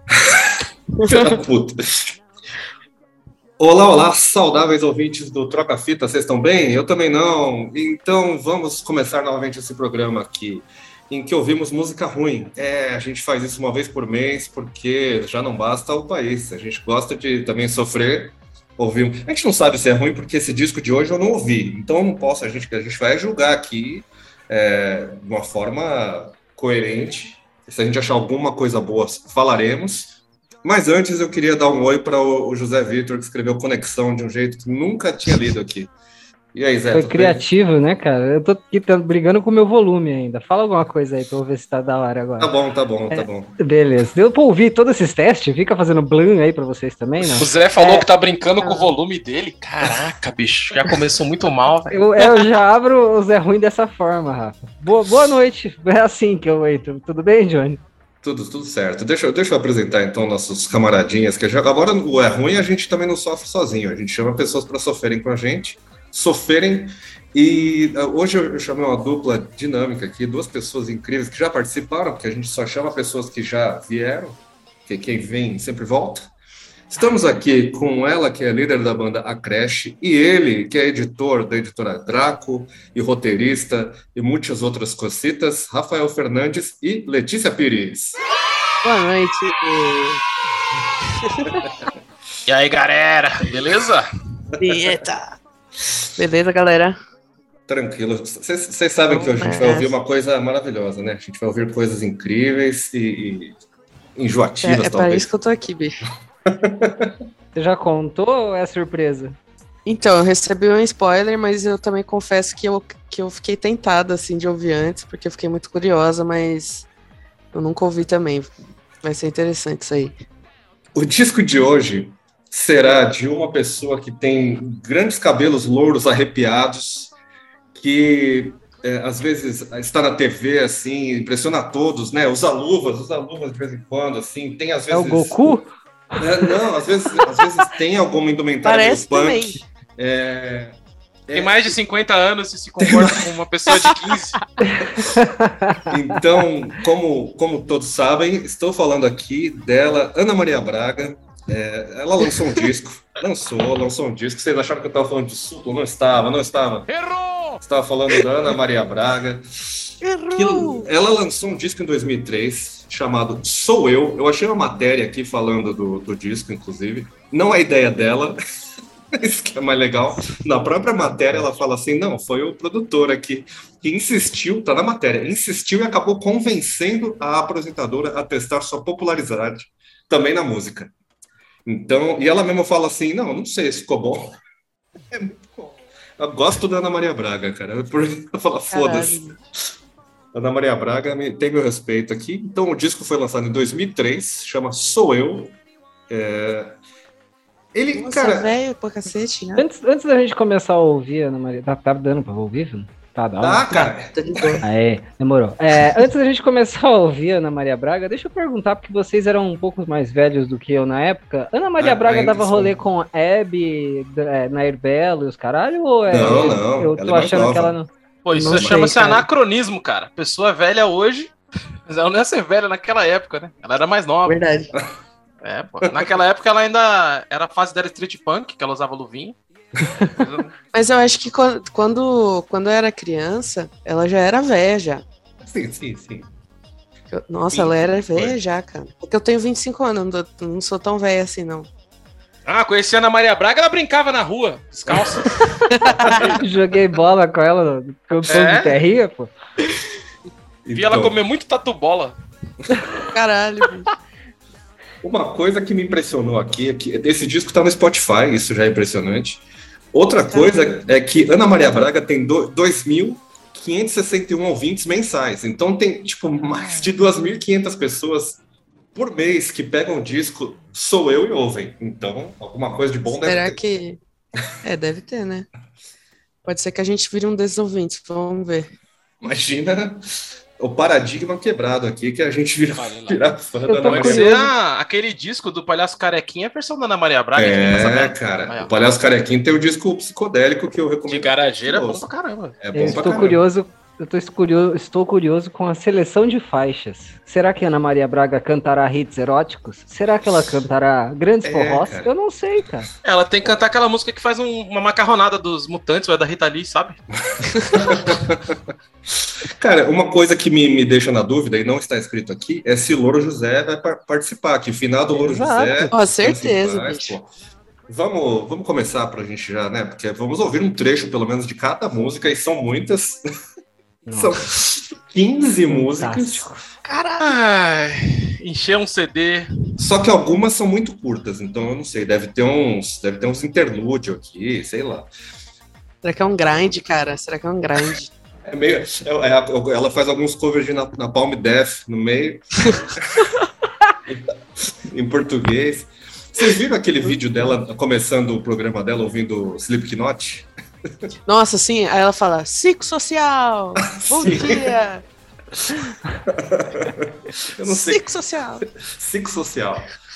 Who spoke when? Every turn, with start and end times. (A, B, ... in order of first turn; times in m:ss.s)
0:00.1-0:02.2 A
0:03.6-0:35.9 A
0:36.5-0:37.4 A
0:36.9-0:42.5 B
0:42.4-0:43.6 A
0:43.1-0:48.0 B
0:47.4-0:52.4 C
0:48.6-0:48.9 B
0:51.9-0:57.8 B
0:58.2-1:16.3 A
1:16.9-1:28.2 A
1:28.8-1:30.2 D
1:31.2-1:31.6 D
1:32.4-1:34.1 C
1:34.6-1:35.4 D
1:34.6-1:34.9 A
1:36.2-1:37.0 D
1:37.7-1:43.6 A
1:39.1-1:39.9 D
1:44.2-1:45.3 A
1:44.6-1:46.0 D
1:46.5-1:47.1 A
1:47.5-1:49.4 B
1:49.8-1:56.9 D
1:57.5-1:58.5 D
1:59.0-2:00.1 D
2:00.9-2:07.1 A
2:07.7-2:15.6 A
2:14.9-2:15.7 B
2:16.2-2:20.7 A
2:18.6-2:19.6 D
2:21.3-2:21.7 A
2:21.3-2:24.4 C
2:22.8-2:23.3 A
2:25.0-2:25.8 B
2:25.9-2:36.9 A
2:36.9-2:37.6 C
2:37.6-2:48.4 A
2:40.0-2:40.9 D
2:49.1-3:00.9 A
3:01.6-3:04.4 A
3:05.1-3:09.4 A
3:08.7-3:09.3 D
3:10.3-3:15.5 A
3:16.1-3:16.8 A
3:17.7-3:18.5 A
3:17.9-3:19.6 D
3:19.6-3:23.8 B
3:23.4-3:24.6 A
3:23.8-3:24.6 D
3:24.6-3:39.0 B
3:31.8-3:32.8 A
3:36.1-3:37.8 A
3:38.2-3:41.3 C
3:38.4-3:39.2 D
3:41.9-3:44.4 C
3:44.2-3:44.7 D
3:45.4-3:49.3 C
3:50.1-3:50.5 C
3:50.7-3:55.0 D
3:55.4-3:56.3 A
3:57.1-4:01.7 D
3:57.5-3:58.4 A
4:02.4-4:06.3 C
4:05.7-4:06.3 D
4:06.4-4:09.3 B
4:08.3-4:08.8 C
4:10.6-4:11.2 A
4:10.7-4:12.1 C
4:13.1-4:13.9 D
4:15.0-4:28.4 A
4:20.3-4:20.8 D
4:28.9-4:33.6 A
4:33.1-4:34.0 D
4:34.6-4:35.5 D
4:36.4-4:38.7 D
4:39.2-4:40.0 A
4:40.6-4:44.3 A
4:42.7-4:43.2 C
4:43.7-4:44.5 B
4:43.8-4:48.7 C
4:47.3-4:52.1 A
4:51.1-4:53.0 C
4:52.6-4:53.4 A
4:52.7-5:02.9 B
5:01.4-5:02.1 A
5:03.0-5:07.0 C
5:07.3-5:08.6 A
5:09.2-5:17.3 A
5:15.1-5:15.9 B
5:15.9-5:17.2 D
5:17.9-5:23.2 A
5:24.1-5:24.4 B
5:24.1-5:26.5 A
5:25.7-5:26.6 B
5:26.8-5:29.5 C
5:29.8-5:35.1 A
5:36.0-5:38.1 D
5:38.4-5:43.3 A
5:44.1-5:51.1 A
5:51.3-5:55.0 D
5:53.8-5:54.8 A
5:56.2-5:58.0 A
5:57.6-5:58.6 D
5:58.7-5:59.9 A